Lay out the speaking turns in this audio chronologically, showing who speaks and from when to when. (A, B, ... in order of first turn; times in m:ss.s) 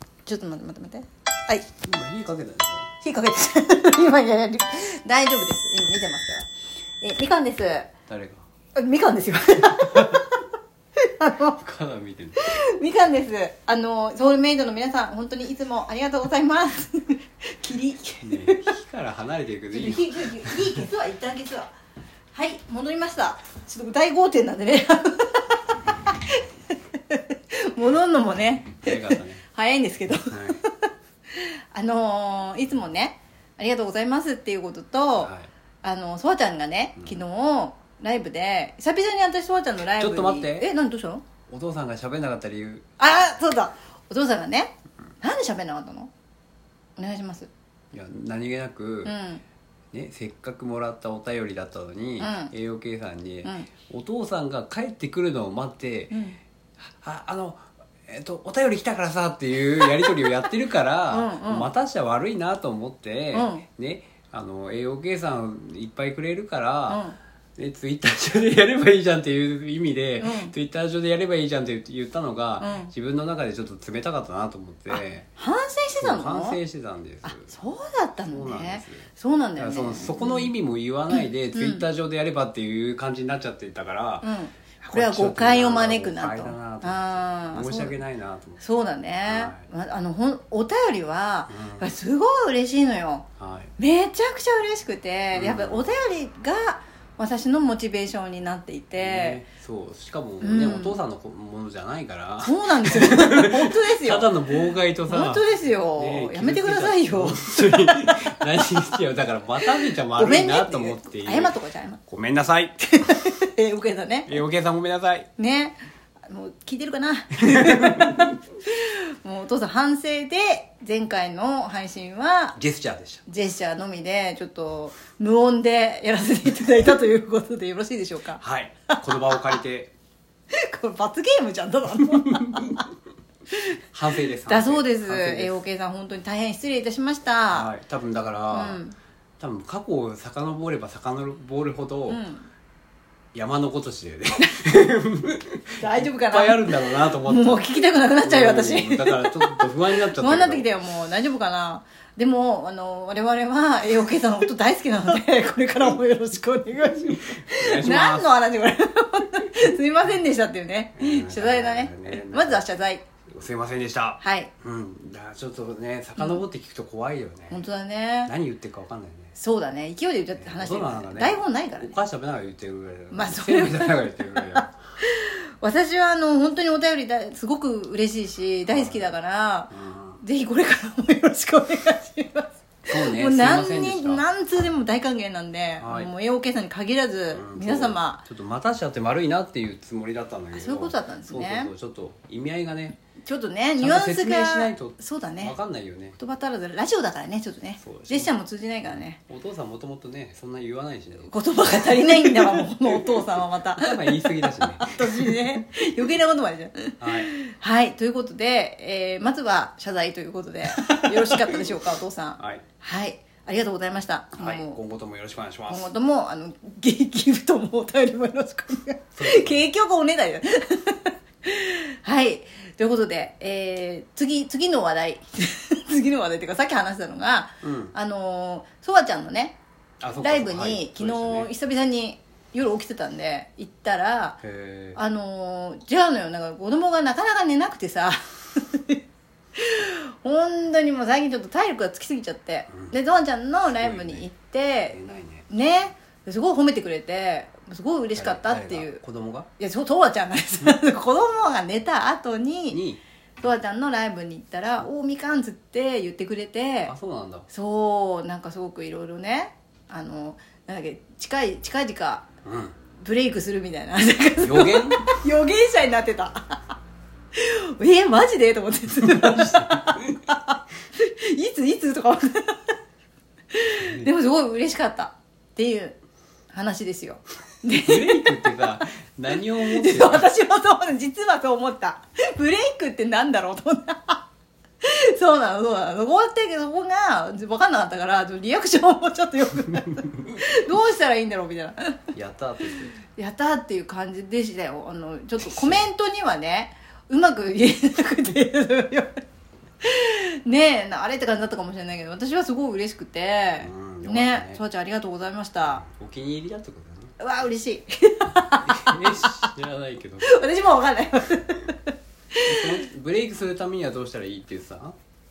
0:00.2-0:01.6 A
0:01.8-0:02.9 B
0:03.0-0:06.5 A
0:07.0-0:07.9 A
0:08.1-0:08.4 B
0:08.7-0:10.4 A
0:11.0-0:11.6 A
0:11.5-0:12.5 B
0:12.4-0:18.7 A
0:18.2-0:20.8 B
0:19.7-0:21.7 A
0:22.3-0:35.3 A
0:28.8-0:29.4 B
0:30.3-0:30.6 B
0:35.2-0:35.5 B
0:35.8-0:41.2 A
0:40.0-0:40.7 B
0:41.5-0:42.8 B
0:43.0-0:46.1 A
0:47.0-0:47.5 A
0:47.9-0:49.1 B
0:49.0-0:49.4 A
0:49.9-0:56.2 B
0:52.2-0:52.5 A
0:53.4-0:53.7 A
0:56.1-0:56.4 A
0:56.8-1:07.0 B
1:01.1-1:01.7 A
1:03.3-1:03.6 A
1:06.9-1:07.2 A
1:07.6-1:15.3 B
1:10.2-1:10.5 A
1:12.6-1:12.9 A
1:14.9-1:16.6 A
1:16.0-1:17.5 B
1:17.2-1:20.5 A
1:18.3-1:19.0 B
1:19.6-1:24.3 B
1:21.1-1:21.8 A
1:24.2-1:27.9 A
1:24.9-1:28.6 B
1:28.6-1:33.2 A
1:29.2-1:29.6 B
1:31.5-1:31.9 B
1:33.4-1:33.7 B
1:33.8-1:39.4 A
1:35.3-1:35.9 B
1:39.0-1:51.5 B
1:40.4-1:41.0 A
1:42.4-1:48.2 A
1:49.6-1:52.0 A
1:52.1-1:53.3 B
1:53.0-1:54.4 A
1:54.3-1:55.3 B
1:55.4-2:02.6 A
1:57.4-1:58.3 B
2:02.6-2:03.2 B
2:03.3-2:09.6 A
2:08.4-2:09.9 B
2:10.5-2:12.8 A
2:12.0-2:12.8 B
2:13.9-2:15.6 B
2:14.4-2:17.7 A
2:17.5-2:18.8 B
2:18.5-2:19.0 A
2:19.4-2:22.2 B
2:22.1-2:22.5 A
2:23.3-2:30.7 B
2:25.8-2:43.0 A
2:36.9-2:38.3 B
2:41.0-2:42.6 B
2:43.3-2:47.6 B
2:44.2-2:44.5 A
2:47.5-2:48.3 A
2:48.2-2:49.3 B
2:49.3-2:51.9 A
2:50.4-2:54.7 B
2:53.1-2:59.7 A
2:58.7-2:59.1 B
2:59.7-3:00.2 B
3:00.2-3:08.2 A
3:02.9-3:04.2 B
3:05.8-3:06.1 B
3:07.3-3:13.0 B
3:10.5-3:11.7 A
3:13.2-3:15.5 A
3:13.8-3:16.2 B
3:16.2-3:19.2 A
3:17.8-3:25.6 B
3:21.2-3:34.8 A
3:27.0-3:27.3 B
3:30.7-3:31.7 B
3:34.3-3:35.9 B
3:35.7-3:49.6 A
3:39.2-3:39.6 B
3:47.6-3:47.9 B
3:50.0-3:51.5 B
3:50.2-3:54.4 A
3:54.4-3:55.0 B
3:55.0-3:59.0 A
3:59.6-4:05.0 A
4:03.8-4:04.3 B
4:04.9-4:05.5 B
4:05.5-4:09.0 A
4:08.1-4:09.5 B
4:09.6-4:12.8 A
4:12.7-4:13.0 B
4:13.4-4:16.9 A
4:16.9-4:17.5 B
4:17.5-4:22.3 A
4:22.4-4:22.7 B
4:23.0-4:26.6 A
4:24.4-4:25.1 B
4:27.3-4:32.7 A
4:29.0-4:30.2 B
4:33.5-4:36.0 A
4:33.8-4:34.1 B
4:36.5-4:38.6 A
4:37.8-4:40.3 B
4:39.4-4:44.2 A
4:44.8-4:52.1 A
4:52.1-4:53.0 B
4:53.1-4:59.2 A
4:55.4-4:55.8 B
4:59.8-5:05.8 A
5:03.6-5:04.6 B
5:05.6-5:07.1 B
5:07.2-5:09.5 A
5:08.6-5:10.4 B
5:10.2-5:12.7 A
5:12.4-5:15.0 B